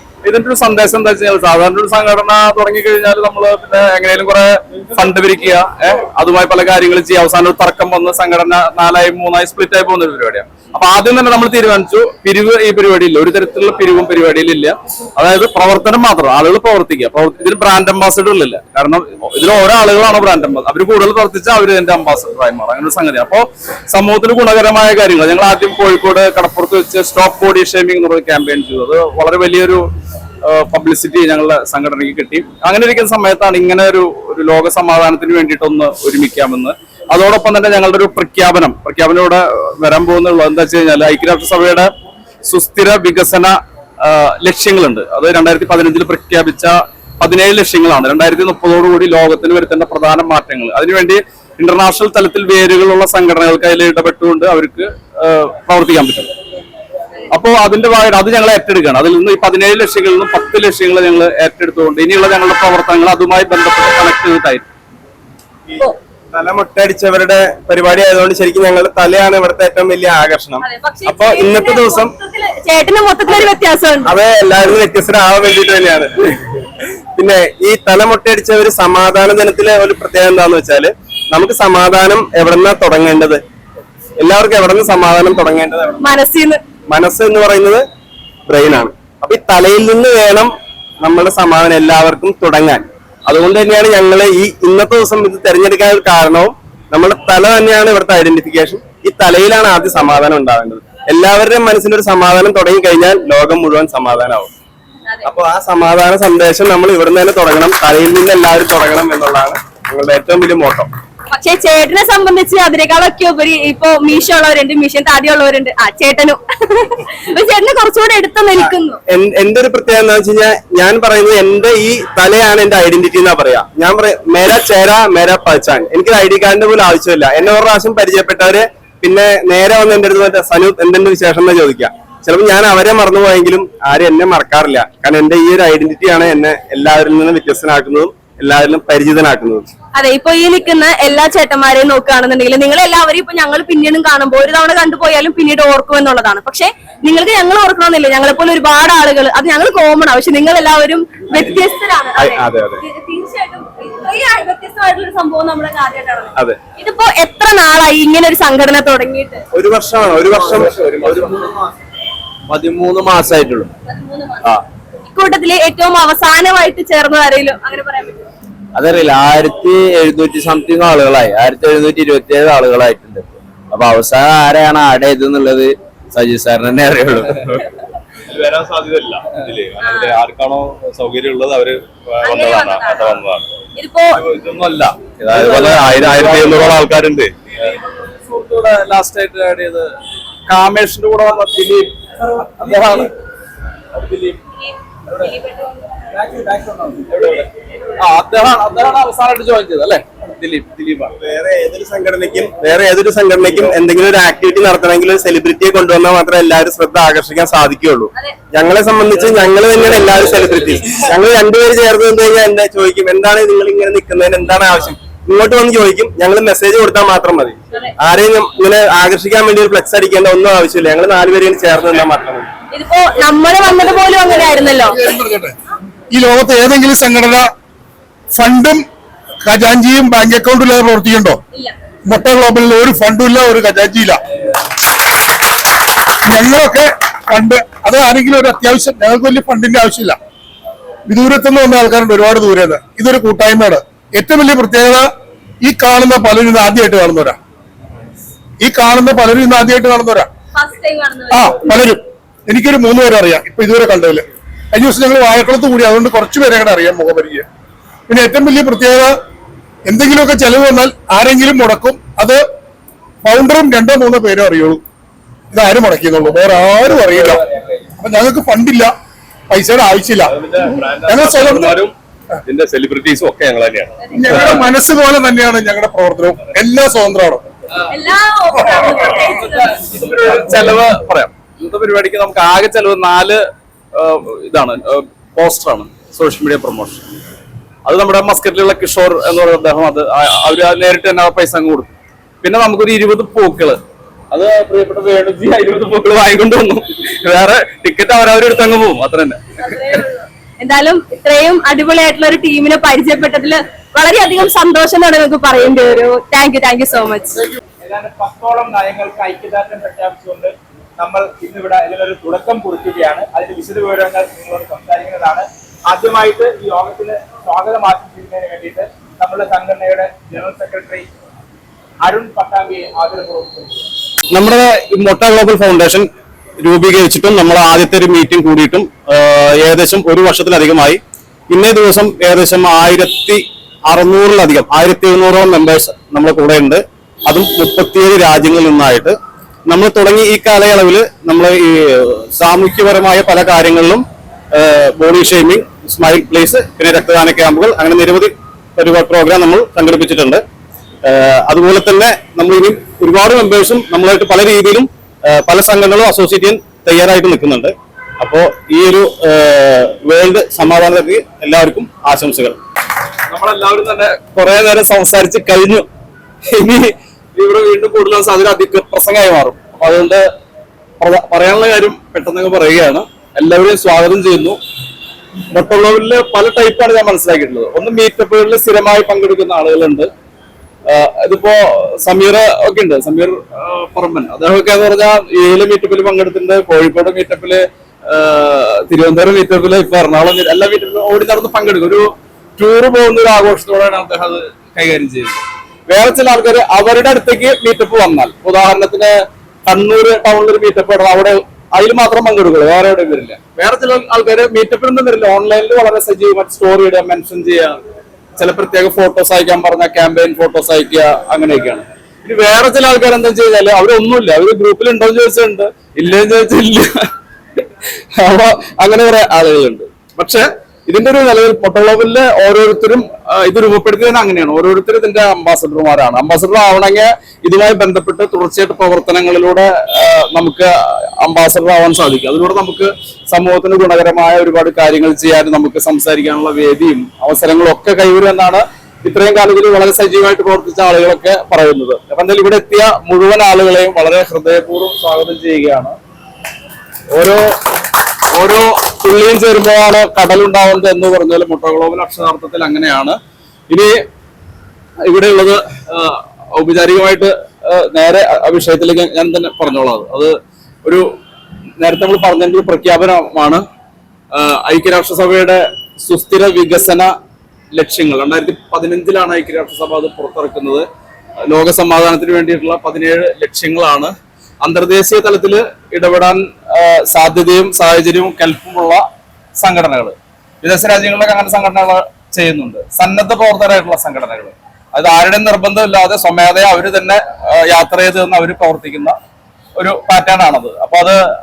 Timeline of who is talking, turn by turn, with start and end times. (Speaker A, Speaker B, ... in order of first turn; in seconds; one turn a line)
Speaker A: 0.2-29.8
Speaker A: 30.4-41.9
Speaker A: 42.4-56.3
Speaker A: 57.3-64.6
Speaker B: 65.7-72.1
Speaker C: 70.6-74.1
Speaker B: 74.0-76.4
Speaker B: 77.1-83.4
Speaker B: 84.2-86.0
Speaker C: 86.0-86.6
Speaker B: 86.9-87.8
Speaker B: 88.5-104.5
Speaker B: 105.2-110.9
Speaker C: 111.3-119.0
Speaker B: 118.6-139.7
Speaker C: 139.9-159.4
Speaker B: 152.2-152.8
Speaker B: 159.5-161.4
Speaker D: 162.5-163.7
Speaker C: 163.8-164.5
Speaker C: 165.1-168.2
Speaker D: 168.7-177.7
Speaker E: 178.3-183.4
Speaker C: 179.8-180.2
Speaker C: 182.2-183.2
Speaker C: 183.8-184.2
Speaker E: 184.2-187.3
Speaker A: 185.2-186.8
Speaker D: 185.6-186.1
Speaker A: 187.5-189.9
Speaker A: 190.5-193.1
Speaker A: 193.9-194.4
Speaker C: 194.6-195.8
Speaker A: 196.5-201.1
Speaker B: 201.2-222.5
Speaker C: 222.7-225.1
Speaker F: 225.0-225.5
Speaker F: 226.1-227.5
Speaker F: 228.3-228.8
Speaker F: 229.4-231.4
Speaker F: 232.1-234.2
Speaker F: 236.3-240.2
Speaker F: 241.1-245.1
Speaker F: 245.6-247.4
Speaker F: 248.6-250.3
Speaker C: 250.5-251.7
Speaker F: 251.3-257.4
Speaker F: 258.1-259.1
Speaker F: 259.9-262.4
Speaker F: 263.2-264.8
Speaker F: 265.5-267.4
Speaker F: 268.0-268.9
Speaker F: 269.5-270.3
Speaker A: 270.4-270.8
Speaker E: 270.5-271.9
Speaker F: 271.0-271.8
Speaker A: 271.4-271.8
Speaker E: 272.5-274.5
Speaker F: 274.1-277.4
Speaker A: 274.3-274.6
Speaker C: 277.8-279.9
Speaker A: 278.9-283.4
Speaker A: 283.9-287.0
Speaker A: 287.9-293.8
Speaker A: 294.3-299.4
Speaker C: 299.6-307.4
Speaker G: 307.8-321.0
Speaker G: 322.0-323.7
Speaker E: 324.3-326.1
Speaker E: 326.6-331.0
Speaker E: 331.5-339.1
Speaker E: 339.7-350.4
Speaker E: 351.0-362.6
Speaker A: 363.3-365.9
Speaker A: 366.5-370.2
Speaker A: 371.0-374.6
Speaker A: 375.5-380.1
Speaker A: 380.9-399.1
Speaker A: 399.6-407.8
Speaker A: 408.4-416.9
Speaker A: 418.2-446.0
Speaker A: 447.1-447.4
Speaker A: 448.3-453.2
Speaker A: 453.7-453.9
Speaker A: 455.0-460.3
Speaker A: 461.8-463.6
Speaker A: 464.3-467.1
Speaker A: 467.7-470.8
Speaker A: 471.5-479.0
Speaker A: 479.6-489.1
Speaker A: 489.8-491.2